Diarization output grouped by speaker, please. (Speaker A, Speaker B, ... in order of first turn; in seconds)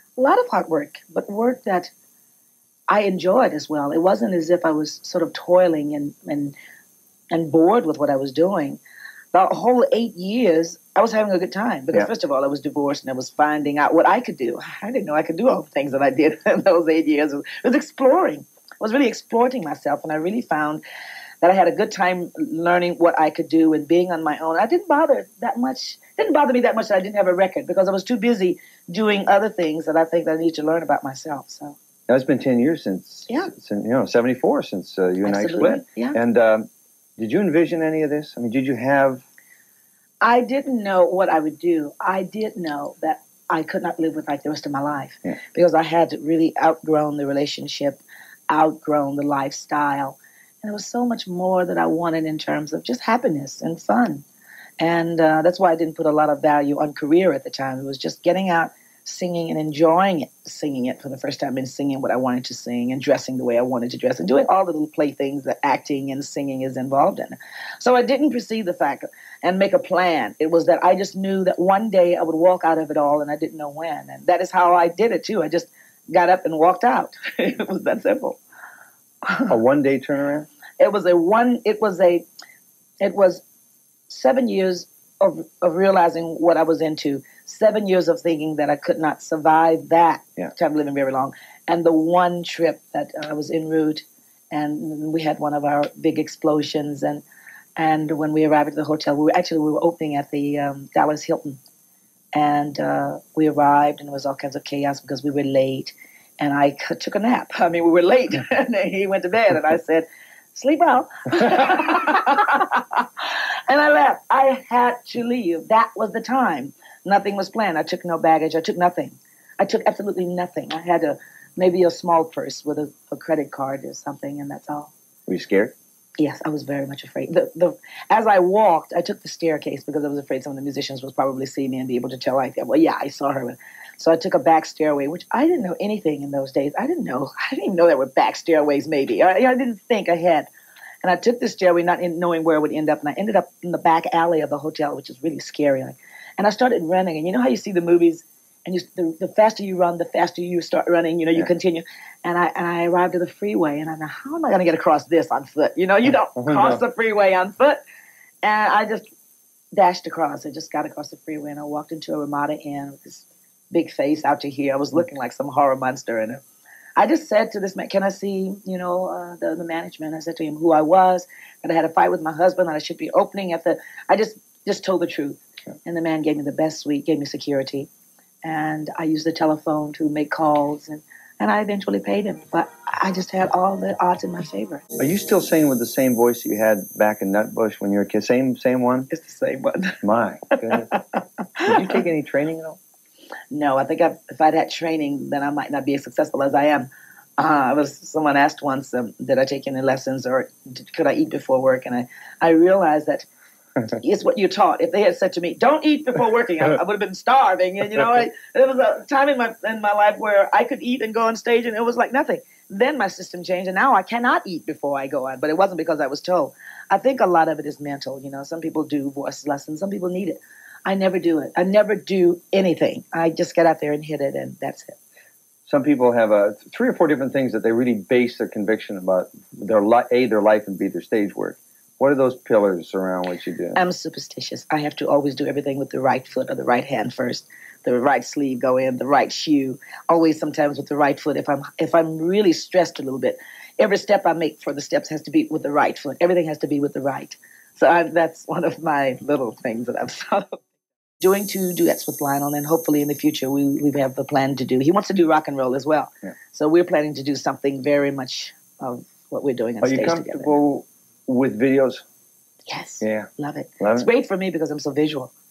Speaker A: 0.2-1.9, 2.9-6.5, 7.3-8.8, 9.3-20.8, 21.4-31.8, 35.2-36.2, 40.2-54.2, 54.8-78.4, 80.8-82.2, 83.0-83.4, 84.1-97.2, 97.8-101.6, 102.3-124.9, 126.2-140.5, 141.0-157.8, 158.4-159.1, 159.7-166.4, 167.0-177.9, 178.4-184.8, 189.1-190.0, 190.7-191.7, 193.5-203.3, 203.8-225.0, 233.8-250.6, 251.2-260.5, 262.7-265.3
Speaker B: 32.1-36.7, 37.2-39.2, 79.5-80.5, 125.3-125.7, 185.0-189.1, 190.0-190.9, 191.7-192.8, 225.7-233.8, 259.8-262.0, 263.0-263.3, 263.8-264.1